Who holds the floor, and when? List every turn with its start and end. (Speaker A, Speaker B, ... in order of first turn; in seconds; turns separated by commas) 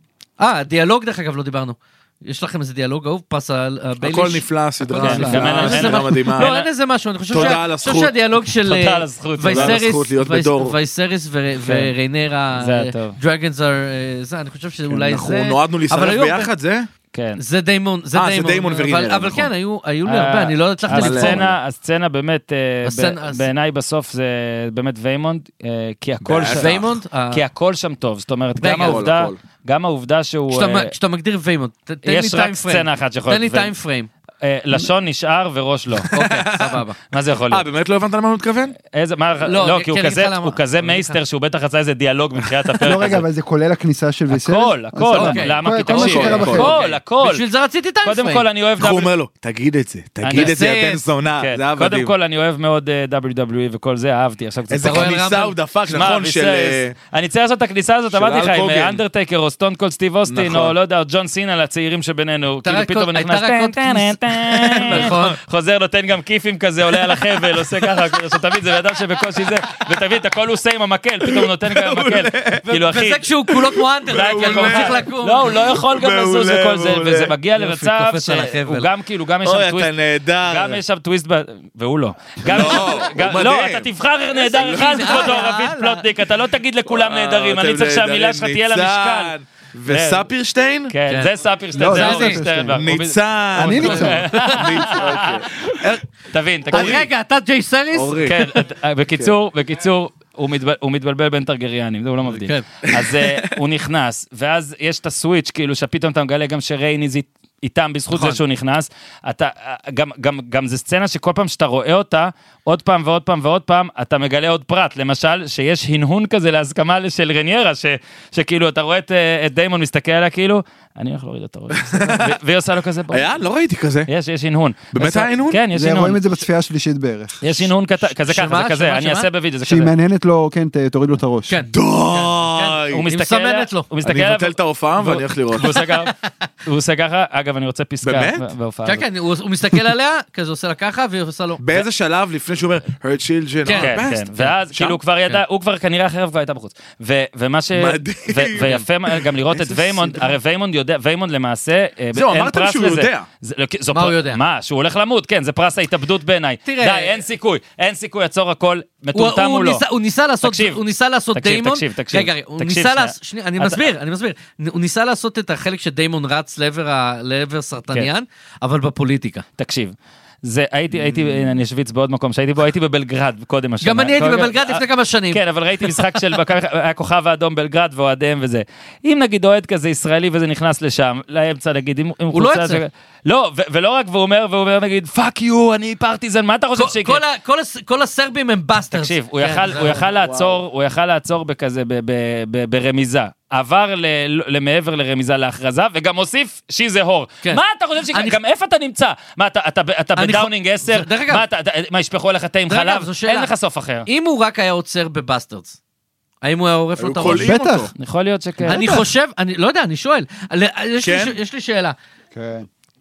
Speaker A: 0.4-16.5, Speaker B: 4.0-6.5, Speaker C: 5.0-6.7, Speaker B: 7.3-8.2, Speaker C: 7.3-7.6, Speaker C: 8.6-9.8, Speaker B: 9.5-10.8, Speaker C: 11.6-11.9, Speaker C: 12.5-13.2, Speaker B: 14.9-16.9, Speaker C: 17.1-17.4, Speaker A: 17.4-21.4, Speaker B: 18.1-19.5, Speaker C: 20.1-30.9, Speaker B: 20.9-21.6, Speaker A: 22.8-23.5, Speaker B: 26.2-26.9, Speaker A: 26.5-27.4, Speaker A: 28.6-29.1, Speaker B: 28.6-29.4, Speaker A: 30.5-34.1, Speaker C: 32.0-33.7, Speaker C: 34.4-36.1, Speaker B: 36.1-36.8, Speaker A: 36.1-37.0, Speaker C: 37.1-37.6, Speaker B: 37.5-38.8, Speaker C: 38.8-43.2, Speaker A: 39.4-41.2, Speaker D: 42.8-46.8, Speaker C: 44.3-47.4, Speaker A: 45.1-48.5, Speaker B: 45.9-46.8, Speaker C: 48.0-49.1, Speaker B: 48.8-52.1, Speaker C: 50.2-50.6, Speaker A: 50.3-51.0, Speaker C: 51.4-55.2, Speaker B: 54.7-56.9, Speaker A: 54.8-55.5, Speaker C: 55.9-73.3, Speaker B: 58.1-59.0, Speaker B: 60.3-60.7, Speaker A: 62.6-65.4, Speaker B: 64.8-65.4, Speaker B: 71.3-72.7, Speaker A: 72.7-75.7, Speaker B: 73.5-77.3, Speaker C: 74.1-79.9, Speaker A: 77.5-78.9, Speaker B: 79.4-80.8, Speaker C: 80.4-89.3, Speaker B: 82.4-83.9, Speaker A: 84.4-86.1, Speaker B: 84.5-85.4, Speaker B: 86.9-90.9, Speaker C: 89.9-90.2, Speaker C: 90.9-97.0, Speaker A: 91.1-91.4, Speaker D: 91.7-92.8, Speaker A: 91.9-92.4, Speaker B: 92.7-96.0, Speaker D: 93.5-94.3, Speaker A: 94.3-95.0, Speaker B: 96.7-97.1, Speaker A: 96.7-98.6, Speaker B: 97.9-98.4, Speaker C: 98.2-123.4, Speaker A: 102.4-102.7, Speaker A: 108.1-108.4, Speaker B: 121.8-122.3, Speaker B: 123.1-124.1, Speaker C: 124.0-126.2, Speaker B: 124.9-125.6, Speaker D: 125.7-127.4, Speaker C: 127.4-129.9, Speaker A: 128.1-129.3, Speaker D: 129.6-131.6, Speaker A: 131.5-133.9, Speaker B: 131.7-133.0, Speaker C: 132.9-136.1, Speaker B: 134.0-135.7, Speaker A: 135.7-136.1, Speaker C: 136.6-139.1, Speaker B: 138.0-138.5, Speaker A: 138.8-141.8, Speaker B: 141.6-145.0, Speaker A: 143.6-144.0, Speaker C: 143.7-159.8, Speaker B: 147.8-150.1, Speaker B: 152.1-153.2, Speaker A: 153.9-154.4, Speaker A: 156.6-157.2, Speaker A: 159.1-169.4, Speaker C: 160.4-160.8, Speaker C: 161.3-163.9, Speaker C: 169.6-187.2, Speaker A: 173.8-175.4, Speaker A: 182.3-182.8, Speaker A: 186.8-190.2, Speaker C: 188.9-204.1, Speaker A: 197.4-198.4, Speaker A: 200.2-201.4, Speaker A: 202.7-203.5, Speaker A: 204.1-205.8, Speaker A: 206.4-207.5, Speaker B: 207.0-207.9, Speaker D: 207.4-207.9, Speaker C: 207.9-209.0, Speaker D: 208.6-209.1, Speaker A: 208.7-211.9, Speaker B: 211.0-211.4, Speaker D: 212.3-212.7